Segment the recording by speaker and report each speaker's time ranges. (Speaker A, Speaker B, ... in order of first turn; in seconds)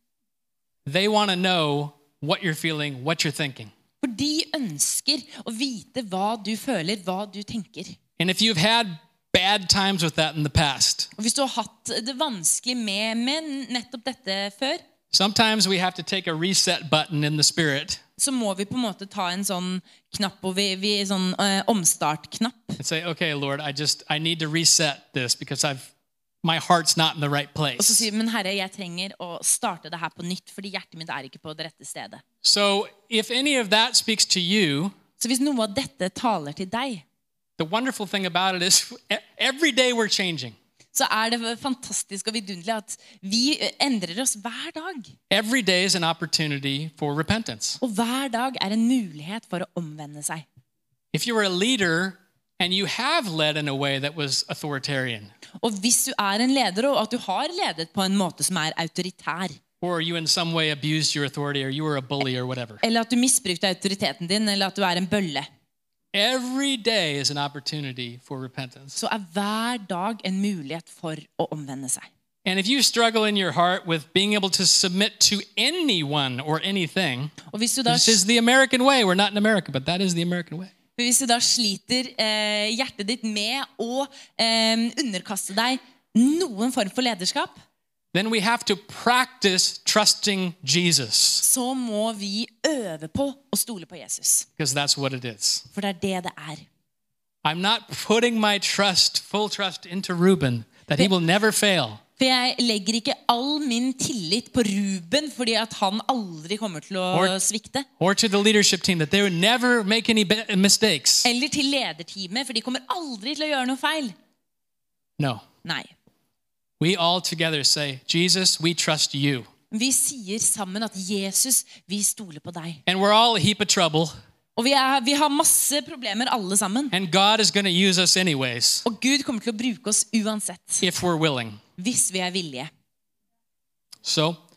Speaker A: 0.8-3.7, 8.2-11.1, 15.1-18.0, 22.8-25.9, 26.4-28.1, 32.4-34.9, 37.6-40.5, 45.3-47.8, 51.1-55.3, 59.8-62.8, 66.1-69.0, 72.4-77.3, 77.9-80.7, 88.1-91.4, 94.6-95.7, 97.4-102.0, 108.0-111.3, 115.2-115.4, 116.8-119.5, 122.8-124.1, 126.9-128.8, 130.8-131.6, 134.0-134.4
Speaker B: 4.0-8.0, 11.2-14.8, 18.2-22.8, 27.8-32.2, 35.2-37.0, 40.9-45.1, 47.8-50.4, 55.6-59.6, 62.8-65.5, 69.0-72.1, 77.5-78.2, 81.0-87.6, 91.4-94.5, 95.7-96.6, 102.2-107.9, 111.2-114.1, 115.6-115.9, 119.7-122.8, 124.6-126.9, 128.8-130.8, 131.8-132.7